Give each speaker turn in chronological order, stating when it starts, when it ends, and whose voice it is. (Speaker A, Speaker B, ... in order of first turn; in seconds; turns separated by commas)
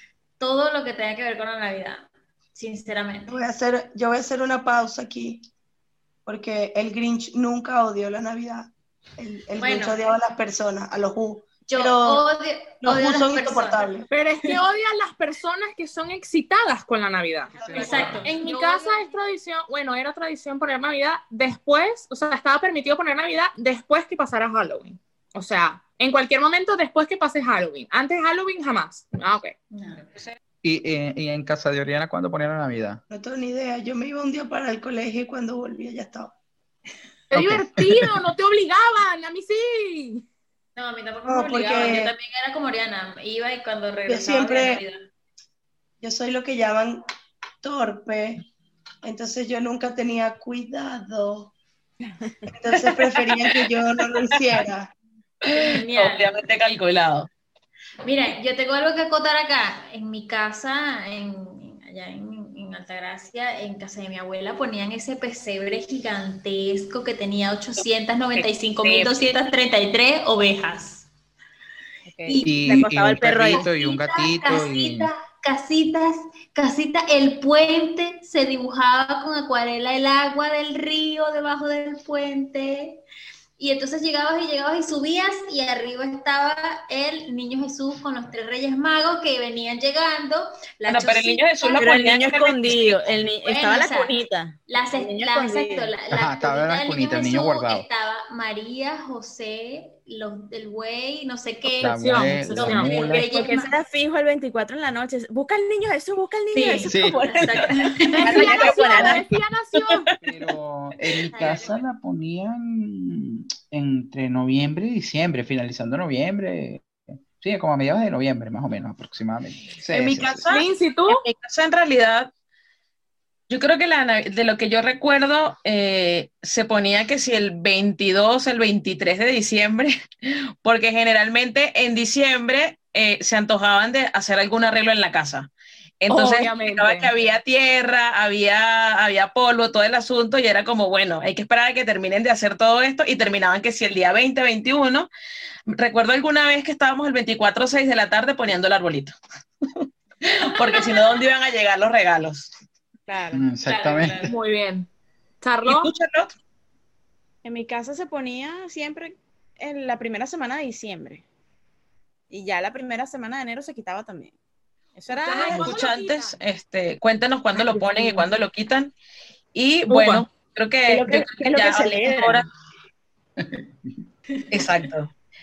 Speaker A: 0.4-3.4, Speaker B: 3.3-5.4, Speaker B: 6.3-12.2, Speaker A: 9.6-10.0, Speaker A: 11.7-13.9, Speaker B: 12.8-14.1, Speaker C: 14.1-29.6, Speaker A: 17.5-19.1, Speaker B: 17.5-18.3, Speaker A: 29.7-30.1, Speaker D: 30.6-33.0, Speaker B: 33.1-36.3, Speaker C: 37.3-40.2, Speaker D: 37.3-38.2, Speaker A: 40.8-45.0, Speaker B: 41.3-42.2, Speaker B: 44.1-44.8, Speaker B: 46.0-47.0, Speaker B: 47.6-48.4, Speaker B: 49.0-51.5, Speaker B: 52.5-54.9, Speaker E: 52.7-54.1, Speaker E: 55.5-57.3, Speaker A: 55.5-56.3, Speaker A: 58.0-71.1, Speaker E: 68.3-69.3, Speaker F: 72.1-73.6, Speaker A: 72.2-72.9, Speaker D: 72.4-75.1, Speaker A: 73.5-83.0, Speaker A: 83.6-92.1, Speaker E: 90.9-93.1, Speaker F: 91.8-95.9, Speaker A: 93.4-94.2, Speaker A: 94.7-103.8, Speaker D: 96.1-97.9, Speaker D: 101.8-103.3, Speaker C: 101.8-103.2, Speaker F: 103.2-109.3, Speaker A: 106.5-108.9, Speaker D: 106.9-107.8, Speaker C: 108.1-110.1, Speaker E: 108.5-110.2, Speaker D: 110.2-120.5, Speaker A: 111.3-111.8, Speaker E: 119.9-122.3, Speaker C: 120.5-121.2, Speaker E: 123.5-135.5, Speaker E: 136.0-145.1, Speaker C: 136.1-137.1, Speaker E: 145.7-152.5, Speaker F: 153.1-153.4, Speaker D: 153.3-154.3, Speaker A: 153.7-154.3, Speaker C: 154.3-154.9, Speaker C: 155.4-155.9, Speaker E: 155.7-156.3, Speaker F: 157.4-161.2, Speaker F: 162.3-164.3, Speaker F: 165.0-165.7, Speaker C: 165.1-166.4, Speaker E: 165.4-168.9, Speaker C: 167.7-168.2, Speaker E: 169.5-172.5, Speaker C: 169.9-170.2, Speaker F: 170.9-172.5, Speaker D: 173.4-173.6, Speaker E: 174.5-175.1